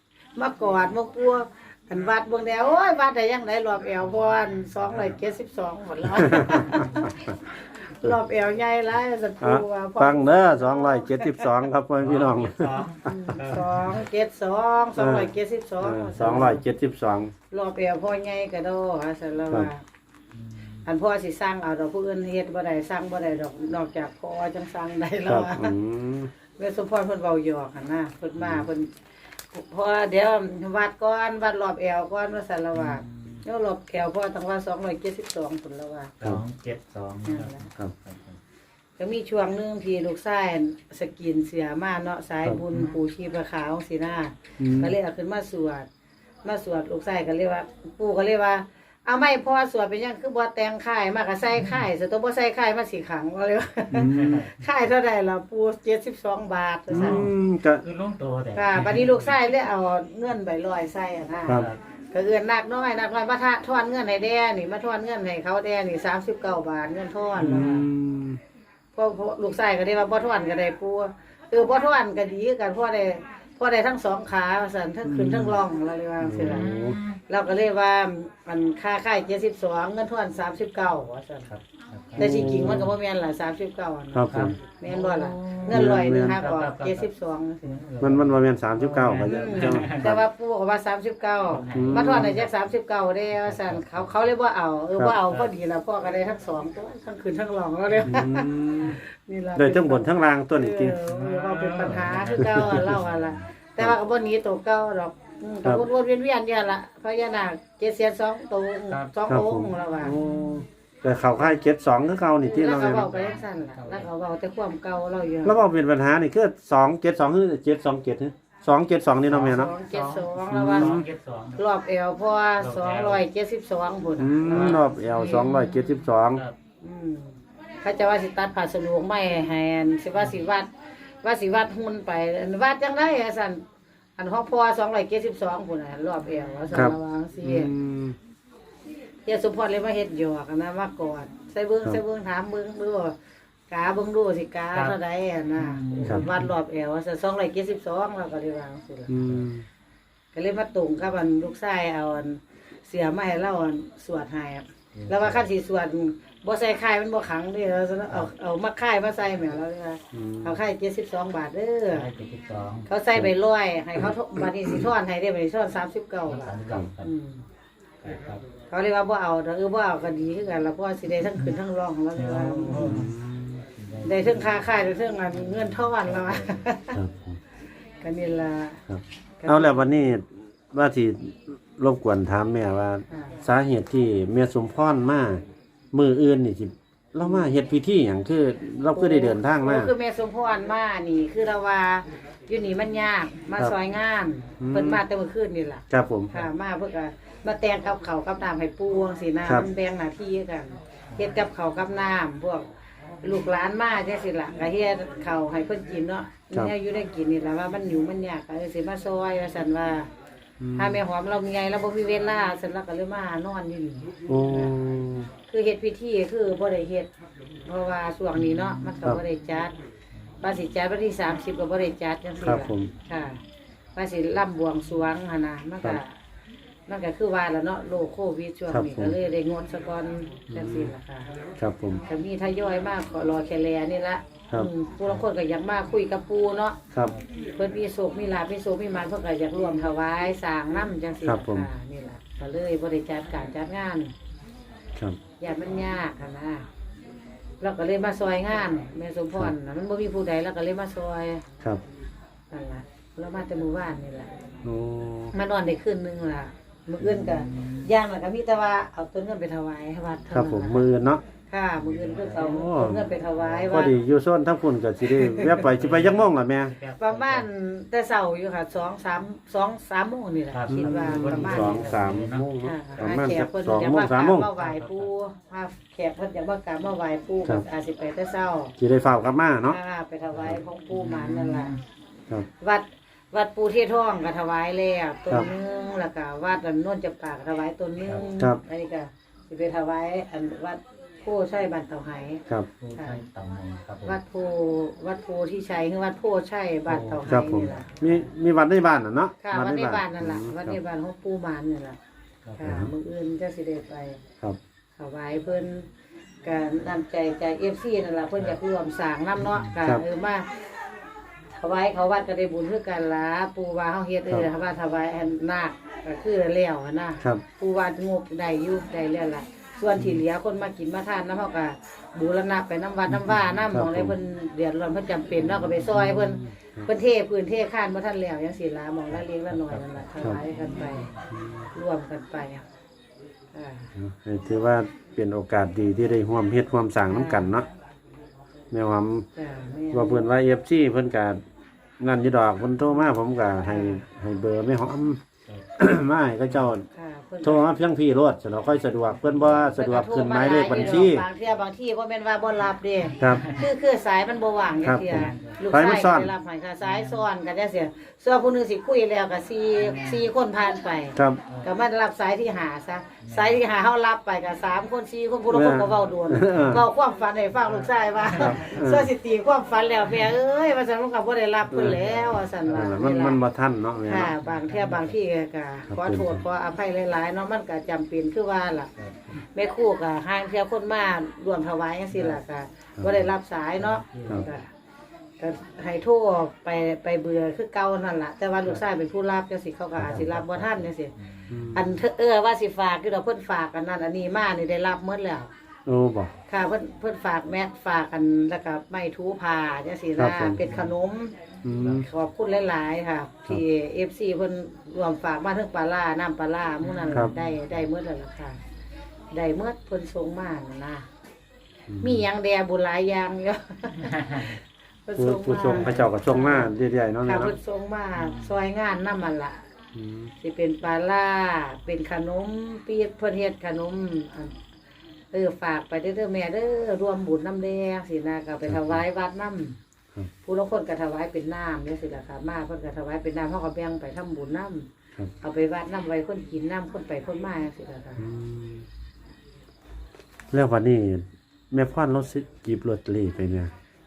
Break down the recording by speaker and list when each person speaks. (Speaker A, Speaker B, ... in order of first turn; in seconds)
Speaker A: 0.3-11.5, 13.1-16.6, 17.5-19.8, 20.8-25.7, 26.6-28.9, 29.5-36.1, 37.2-37.6, 39.0-45.9, 46.4-57.3, 58.5-67.8, 68.9-76.7, 77.3-81.5, 82.2-87.7, 89.2-110.2, 112.4-115.6, 119.5-121.0, 121.5-125.5, 126.8-130.7, 131.2-133.6, 134.2-137.7, 139.2-143.1, 143.7-149.3, 150.3-162.1, 162.9-167.4, 168.7-173.1, 174.0-177.0, 178.0-178.8, 179.4-179.9, 183.1-183.4, 188.9-202.7, 203.2-210.1, 210.8-214.7, 215.5-217.1, 217.6-219.7, 220.4-223.4, 223.9-226.1, 226.9-231.3, 232.0-236.8, 237.6-244.1, 245.4-246.7, 247.6-251.4, 252.5-254.3, 255.3-260.8, 261.5-263.9, 265.2-265.6, 267.0-271.9, 272.6-278.8, 279.6-281.7, 282.6-293.2, 294.0-298.0, 299.4-302.0, 302.6-304.2, 305.0-305.9, 306.4-310.5, 311.5-331.1, 331.7-332.6, 333.5-333.9, 337.1-337.5, 339.4-340.3, 343.6-344.0, 346.9-347.7, 349.7-373.4, 374.0-384.7, 385.4-391.1, 391.7-395.5, 396.5-401.3, 401.9-408.6, 409.3-411.0, 412.0-419.6, 420.4-424.6, 425.3-429.8, 430.4-434.9, 435.4-438.3
Speaker B: 6.5-6.9, 12.0-14.0, 20.3-20.7, 32.7-33.4, 36.2-38.4, 53.9-54.6, 56.9-59.3, 61.5-61.8, 67.4-67.9, 76.4-77.2, 81.5-82.9, 84.3-87.1, 87.6-90.1, 91.5-92.6, 93.3-94.2, 101.0-103.5, 108.9-109.1, 110.0-110.6, 112.9-114.1, 119.3-121.6, 122.6-123.2, 124.4-126.6, 145.6-146.5, 154.9-155.4, 161.9-162.9, 166.3-167.1, 168.0-168.4, 172.1-173.2, 173.7-174.7, 175.3-176.5, 257.0-257.9, 261.8-262.6, 263.2-263.9, 265.5-267.5, 270.5-273.1, 274.5-275.1, 280.9-281.8, 292.8-294.2, 302.5-302.8, 325.5-326.2, 329.1-331.2, 349.1-349.7, 350.4-351.1, 353.2-353.7, 354.9-355.6, 356.8-357.2, 359.8-360.3, 363.2-363.6, 368.2-368.7, 371.8-373.0, 374.2-375.1, 379.0-379.3, 382.1-382.4, 383.8-384.5, 390.0-391.9, 400.6-400.9, 401.6-402.1, 406.8-407.6, 414.2-414.5
Speaker C: 9.4-13.3, 14.9-17.3, 25.2-26.3, 44.6-45.0, 53.9-54.5, 56.9-57.8, 67.4-68.4, 75.0-75.6, 76.2-77.0, 82.2-82.9, 84.1-84.5, 85.7-86.4, 88.0-90.2, 91.7-92.3, 98.0-99.0, 99.5-101.0, 102.4-102.8, 109.3-113.2, 115.4-119.7, 120.5-121.0, 124.2-126.4, 136.7-138.2, 149.1-149.7, 160.1-160.6, 164.4-164.8, 172.7-173.6, 176.9-177.4, 178.9-189.9, 194.6-195.0, 195.9-196.3, 210.6-211.0, 214.3-215.3, 222.4-222.9, 228.7-229.2, 230.5-230.9, 231.6-232.0, 241.2-241.7, 254.6-255.3, 260.3-261.2, 262.4-263.1, 263.6-266.7, 270.7-274.5, 278.8-279.8, 297.1-300.8, 302.6-302.9, 323.7-324.1, 331.3-331.6, 333.9-337.7, 338.7-339.3, 339.9-341.4, 342.0-345.2, 345.8-346.8, 347.4-351.2, 354.8-356.3, 361.1-361.4, 365.5-366.8, 368.3-369.1, 371.7-372.0, 372.7-374.3, 375.9-376.4, 391.5-391.9, 395.9-396.3, 400.2-400.6, 401.6-402.1, 411.9-412.2, 415.2-417.6, 419.9-420.3, 428.6-429.0, 438.2-438.9, 440.5-443.7